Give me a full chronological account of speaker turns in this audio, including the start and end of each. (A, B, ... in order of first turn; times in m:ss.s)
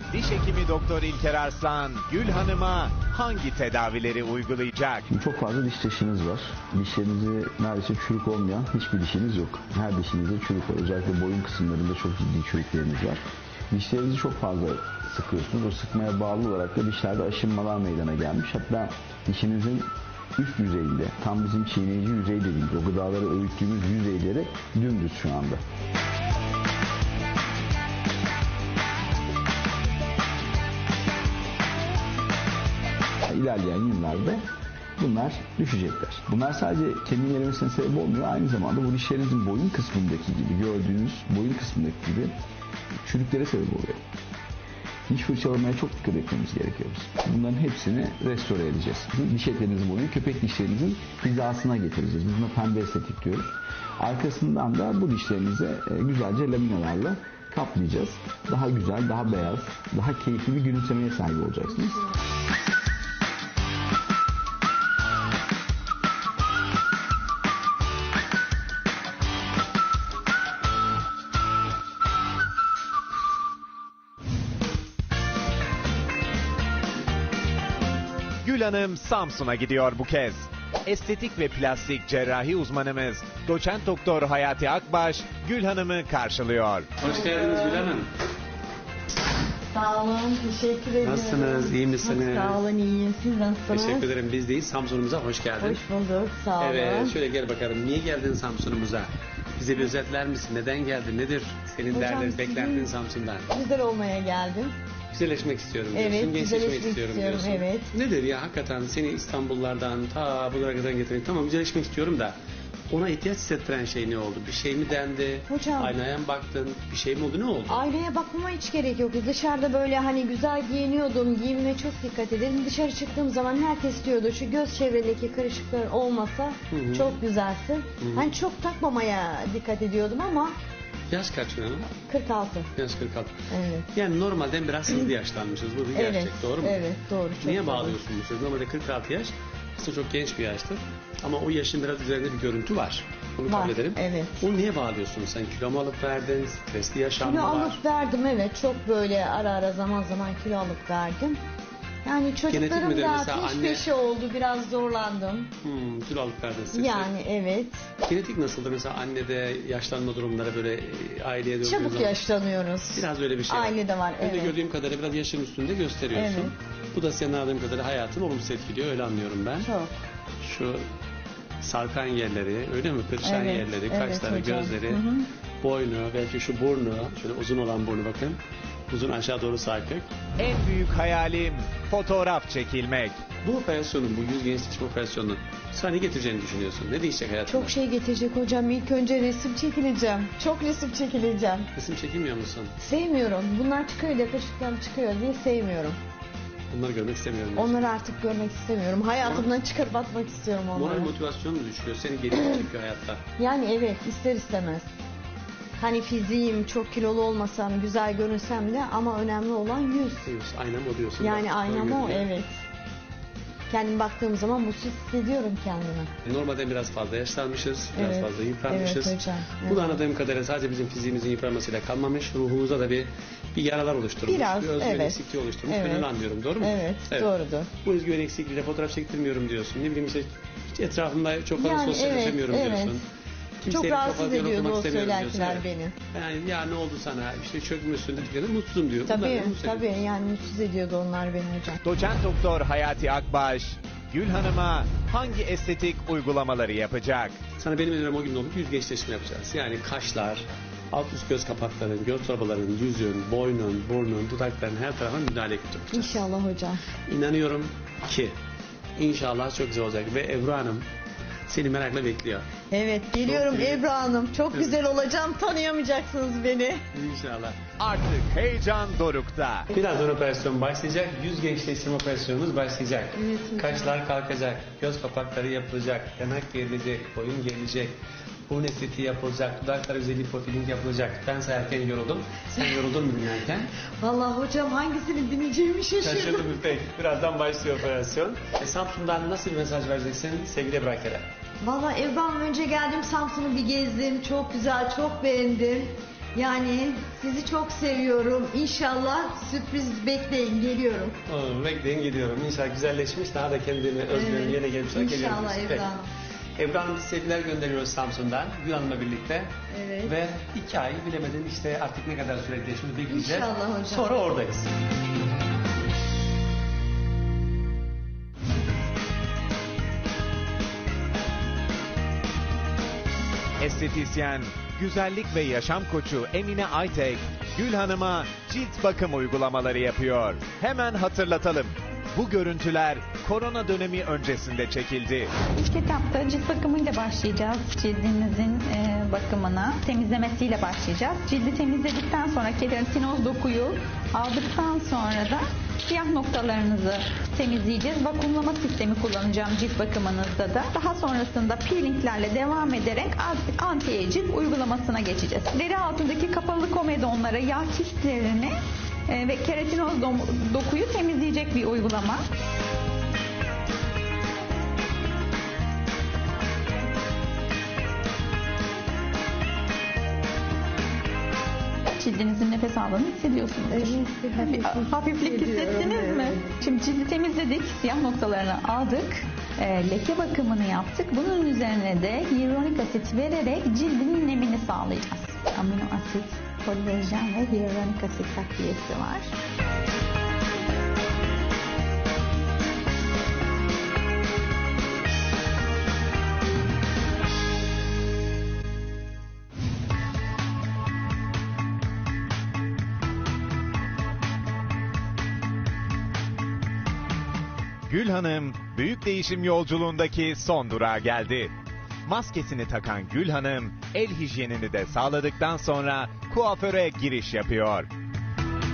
0:00.1-0:05.0 A
0:05.1-0:25.6 B
0:33.3-0:34.4 B
0:35.0-0:42.3 B
0:43.0-0:44.0 B
0:45.1-1:02.0 B
1:18.4-1:27.0 A
1:27.0-1:28.1 C
1:27.0-1:27.9 D
1:29.7-1:34.1 D
1:31.0-1:32.6 C
1:33.7-1:35.8 C
1:35.6-1:37.2 D
1:36.6-1:43.5 C
1:41.9-1:42.9 D
1:43.5-1:44.7 D
1:45.1-1:52.3 C
1:45.9-1:47.9 D
1:52.9-1:57.8 C
1:55.5-1:55.9 D
1:57.7-2:10.5 D
2:06.7-2:07.2 C
2:08.0-2:08.3 C
2:11.1-2:11.9 C
2:12.1-2:12.7 D
2:12.7-2:13.3 C
2:13.5-2:13.9 D
2:13.9-2:16.8 C
2:15.9-2:18.0 D
2:17.4-2:27.8 C
2:23.5-2:24.3 D
2:27.2-2:31.4 D
2:32.0-2:35.5 D
2:32.5-2:33.8 C
2:35.6-2:37.1 C
2:36.7-2:37.9 D
2:38.0-2:42.2 C
2:41.6-2:44.5 D
2:42.9-2:49.7 C
2:46.1-2:46.5 D
2:49.6-2:49.9 D
2:50.4-2:50.8 C
2:51.6-2:55.0 C
2:53.2-2:55.2 D
2:55.6-3:00.1 C
3:00.4-3:03.2 A
3:03.4-3:07.7 C
3:07.5-3:11.7 D
3:11.7-3:12.7 C
3:12.8-3:16.0 D
3:16.7-3:17.9 C
3:17.6-3:21.1 D
3:19.2-3:19.5 C
3:20.7-3:23.2 C
3:23.4-3:24.8 D
3:25.8-3:30.3 D
3:30.2-3:32.3 C
3:31.2-3:32.5 D
3:33.7-3:36.1 D
3:36.2-3:47.3 C
3:37.9-3:40.0 D
3:44.2-3:46.1 D
3:46.6-3:47.7 D
3:47.8-3:53.0 C
3:51.6-3:53.0 D
3:53.6-4:00.1 C
3:53.7-3:55.9 D
3:59.1-4:01.8 D
4:01.8-4:07.4 A
4:07.6-4:16.2 C
4:15.9-4:16.8 D
4:17.1-4:18.4 C
4:19.0-4:20.9 C
4:21.5-4:22.5 C
4:22.7-4:26.8 D
4:23.1-4:23.8 C
4:24.5-4:24.8 C
4:26.9-4:27.6 C
4:27.8-4:29.7 A
4:29.7-4:38.0 C
4:33.2-4:33.9 D
4:38.5-4:43.7 C
4:44.0-4:46.5 D
4:46.0-4:51.2 C
4:51.6-5:01.2 D
5:01.3-5:05.9 C
5:04.1-5:06.1 D
5:06.6-5:09.5 C
5:09.7-5:10.1 D
5:10.0-5:14.7 C
5:13.1-5:14.2 D
5:23.6-5:35.3 A
5:35.5-5:58.6 E
5:59.1-6:02.2 E
6:11.9-6:29.3 E
6:13.7-6:16.5 D
6:47.9-6:51.5 A
6:52.0-6:57.9 A